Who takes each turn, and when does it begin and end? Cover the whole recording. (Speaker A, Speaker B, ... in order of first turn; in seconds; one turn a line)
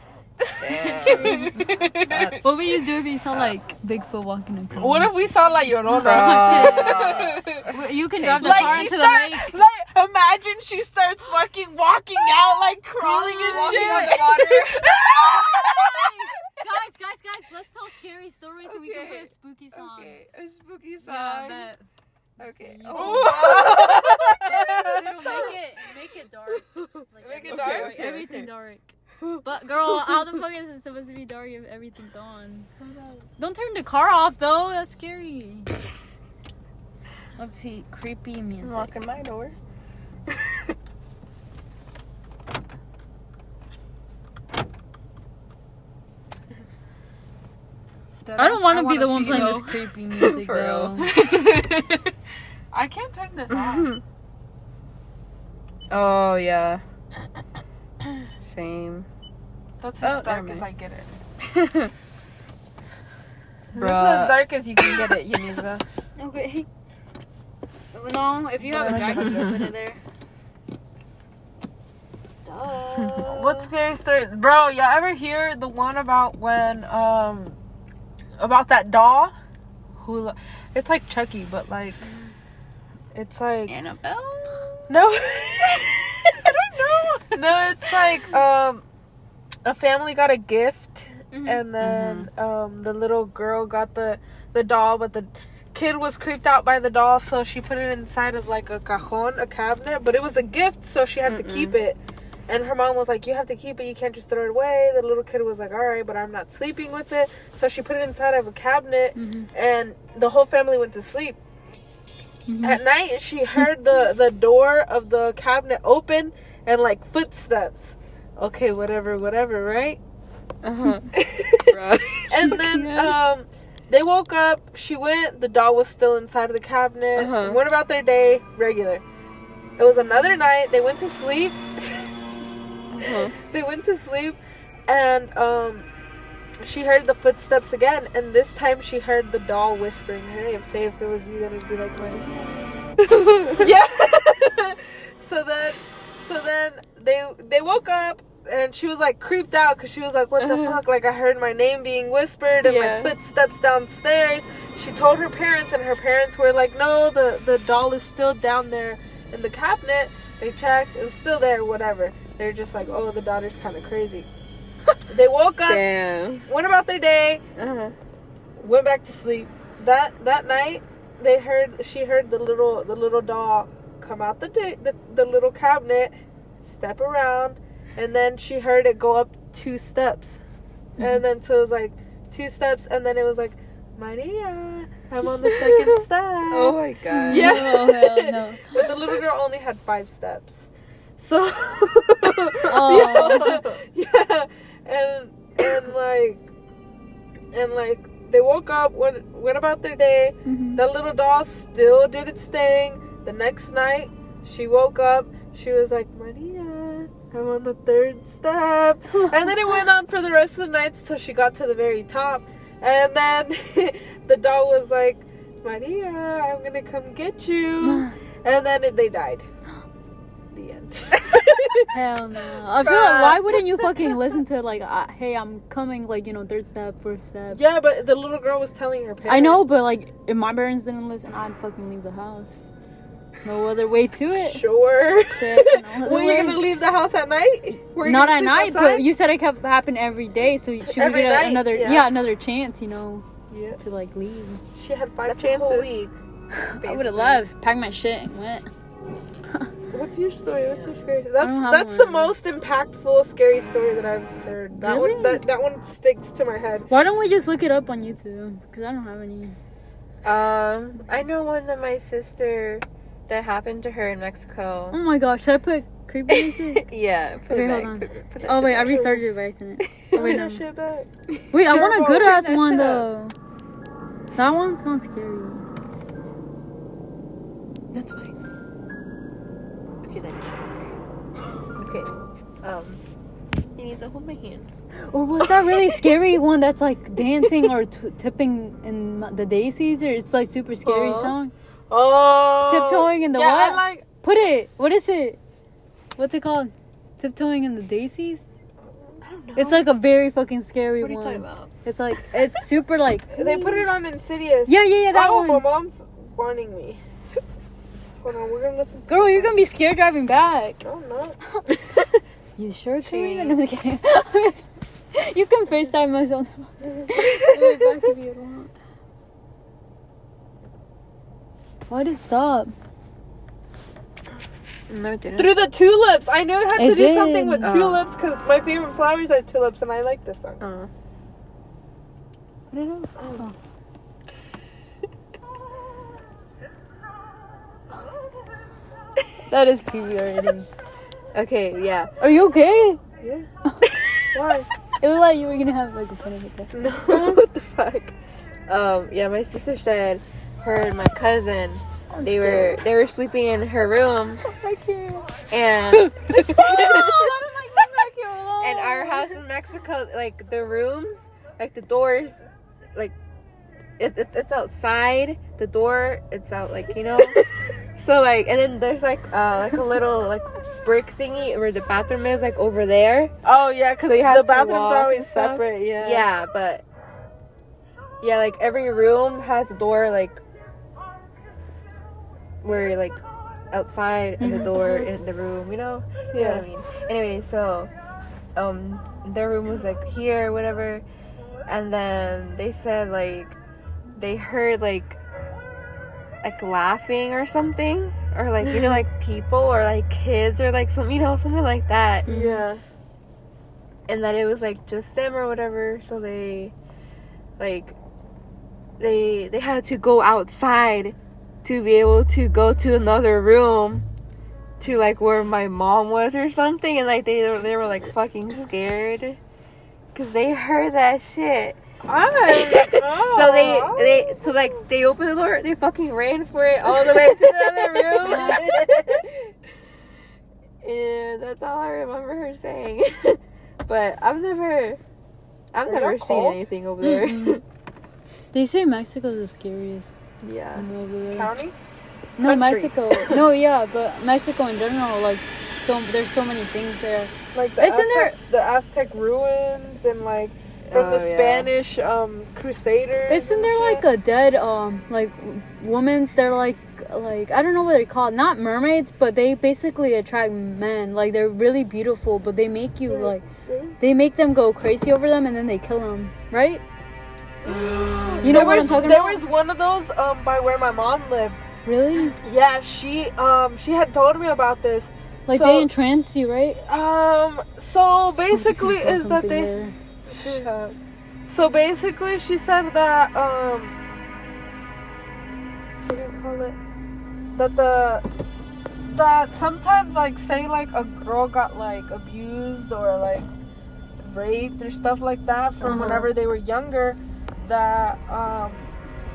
Speaker A: 0.4-2.4
Speaker B: 0.6-2.8
Speaker C: 1.0-1.7
Speaker C: 2.4-5.1
Speaker A: 4.8-7.3
Speaker C: 5.8-9.6
Speaker B: 6.0-8.9
Speaker A: 8.3-15.4
Speaker C: 13.0-14.2
Speaker B: 13.0-15.8
Speaker C: 15.3-20.2
Speaker B: 18.6-21.7
Speaker C: 21.0-21.8
Speaker C: 22.4-23.9
Speaker B: 22.4-25.5
Speaker A: 22.9-25.5
Speaker C: 24.4-32.7
Speaker A: 27.2-28.2
Speaker B: 27.4-28.5
Speaker A: 32.8-33.2
Speaker C: 33.4-35.7
Speaker C: 37.4-38.9
Speaker B: 38.6-39.5
Speaker A: 48.2-49.9
Speaker C: 48.4-51.1
Speaker B: 49.3-49.6
Speaker B: 50.1-52.0
Speaker A: 52.7-53.9
Speaker B: 53.5-54.0
Speaker B: 55.9-56.8
Speaker B: 58.4-59.1
Speaker A: 59.8-61.1
Speaker B: 60.0-60.6
Speaker B: 61.5-61.9
Speaker B: 63.7-64.9
Speaker A: 63.7-65.8
Speaker C: 66.2-66.7
Speaker C: 67.9-70.0
Speaker A: 68.7-69.6
Speaker C: 72.4-73.7
Speaker A: 73.2-77.6
Speaker A: 78.4-79.3
Speaker A: 80.0-82.0
Speaker C: 82.0-82.3
Speaker A: 83.1-83.8
Speaker B: 83.7-84.9
Speaker A: 84.9-86.0
Speaker B: 85.8-86.0
Speaker A: 86.8-88.8
Speaker A: 89.6-111.4
Speaker C: 91.3-91.6
Speaker B: 91.8-92.3
Speaker B: 101.2-101.8
Speaker C: 109.2-109.5
Speaker C: 112.5-112.8
Speaker A: 112.6-120.0
Speaker B: 120.6-121.1
Speaker A: 121.1-121.8
Speaker B: 121.6-122.6
Speaker A: 122.3-129.0
Speaker C: 122.5-123.2
Speaker B: 127.2-127.6
Speaker A: 129.8-132.1
Speaker B: 132.9-133.3
Speaker A: 133.0-135.9
Speaker A: 136.6-142.5
Speaker A: 143.6-164.3
Speaker B: 150.4-150.8
Speaker B: 152.6-153.1
Speaker A: 165.1-165.8
Speaker B: 165.7-166.5
Speaker A: 166.5-167.4
Speaker B: 167.6-167.9
Speaker A: 168.6-180.4
Speaker C: 181.0-181.2
Speaker A: 181.0-186.8
Speaker B: 185.5-187.6
Speaker C: 187.1-188.9
Speaker A: 187.3-196.4
Speaker C: 192.7-193.6
Speaker B: 192.9-193.8
Speaker A: 197.5-219.5
Speaker C: 200.4-200.8
Speaker C: 209.1-209.8
Speaker C: 217.8-218.2
Speaker A: 220.5-221.9
Speaker C: 221.9-227.6
Speaker B: 222.8-223.9
Speaker A: 222.9-223.2
Speaker A: 227.5-229.7
Speaker C: 229.3-232.7
Speaker C: 233.4-234.6
Speaker A: 234.4-239.1
Speaker C: 235.3-236.6
Speaker C: 238.0-243.2
Speaker A: 240.8-242.1
Speaker A: 243.5-243.8
Speaker C: 243.8-244.6
Speaker A: 244.8-246.0
Speaker B: 245.2-246.1
Speaker C: 246.6-248.7
Speaker B: 246.8-247.5
Speaker A: 249.9-256.9
Speaker B: 250.6-251.0
Speaker C: 251.4-252.3
Speaker C: 254.7-255.4
Speaker C: 256.9-259.6
Speaker B: 260.2-265.0
Speaker C: 264.9-266.9
Speaker B: 266.3-269.0
Speaker C: 267.5-270.6
Speaker A: 268.9-269.2
Speaker A: 270.1-271.1
Speaker C: 271.5-273.3
Speaker A: 271.7-273.1
Speaker C: 274.3-275.6
Speaker C: 277.9-278.3
Speaker B: 280.0-281.0
Speaker B: 281.8-282.1
Speaker B: 282.6-283.0
Speaker B: 283.8-284.7
Speaker C: 285.0-291.5
Speaker A: 290.8-291.4
Speaker A: 291.9-294.1
Speaker C: 292.7-295.4
Speaker C: 296.2-298.4
Speaker A: 299.2-299.8
Speaker C: 299.5-303.9
Speaker B: 301.0-301.7
Speaker A: 303.3-307.0
Speaker C: 304.7-305.6
Speaker A: 308.2-309.6
Speaker C: 309.1-310.8
Speaker A: 310.8-311.4
Speaker C: 312.6-318.7
Speaker B: 313.0-313.6
Speaker C: 321.9-322.7
Speaker B: 324.9-325.6
Speaker A: 325.4-330.6
Speaker C: 326.7-327.8
Speaker B: 327.6-328.0
Speaker B: 330.6-330.9
Speaker C: 332.7-333.6
Speaker C: 339.5-340.7
Speaker B: 341.3-342.1
Speaker C: 342.2-343.0
Speaker C: 343.6-344.0
Speaker A: 344.3-344.7
Speaker C: 345.0-346.7
Speaker B: 346.8-348.1
Speaker A: 346.9-347.4
Speaker B: 348.7-354.4
Speaker C: 352.1-352.8
Speaker C: 354.5-355.2
Speaker B: 355.5-357.1
Speaker A: 356.1-358.0
Speaker C: 356.5-359.3
Speaker B: 358.6-363.1
Speaker B: 364.0-367.4
Speaker B: 367.9-373.3
Speaker A: 373.4-376.2
Speaker B: 374.1-376.8
Speaker B: 378.2-380.4
Speaker B: 382.6-383.2
Speaker B: 383.7-387.9
Speaker C: 384.4-384.8
Speaker A: 384.4-385.1
Speaker A: 386.3-386.6
Speaker B: 388.6-391.1
Speaker B: 391.7-393.6
Speaker B: 394.1-395.2
Speaker B: 396.4-402.3
Speaker A: 398.6-399.0
Speaker C: 402.2-402.6
Speaker A: 402.3-402.8
Speaker B: 404.1-406.7
Speaker B: 407.6-407.9
Speaker B: 409.0-414.0
Speaker B: 414.8-419.4
Speaker B: 420.1-421.8
Speaker A: 422.0-424.8
Speaker B: 422.5-429.5
Speaker A: 426.9-428.8
Speaker C: 428.2-428.7
Speaker B: 430.8-435.0
Speaker B: 435.7-437.6
Speaker A: 435.8-436.6
Speaker C: 437.0-437.6
Speaker C: 438.5-440.1
Speaker B: 440.4-440.9
Speaker C: 440.8-441.5
Speaker A: 441.3-441.7
Speaker C: 442.4-448.4
Speaker A: 442.4-443.0
Speaker A: 447.5-454.0
Speaker B: 450.9-451.7
Speaker C: 453.3-463.4
Speaker A: 463.1-464.0
Speaker C: 464.0-466.8
Speaker A: 467.6-471.6
Speaker B: 467.6-469.1
Speaker C: 468.4-469.4
Speaker C: 471.8-472.4
Speaker A: 472.3-475.9
Speaker C: 475.5-476.8
Speaker A: 476.8-479.7
Speaker C: 478.5-479.9
Speaker A: 480.3-480.9
Speaker A: 481.5-483.9
Speaker A: 486.1-486.8
Speaker A: 487.5-488.2
Speaker A: 489.0-493.5
Speaker A: 494.2-498.9
Speaker C: 495.8-496.2
Speaker B: 495.9-496.2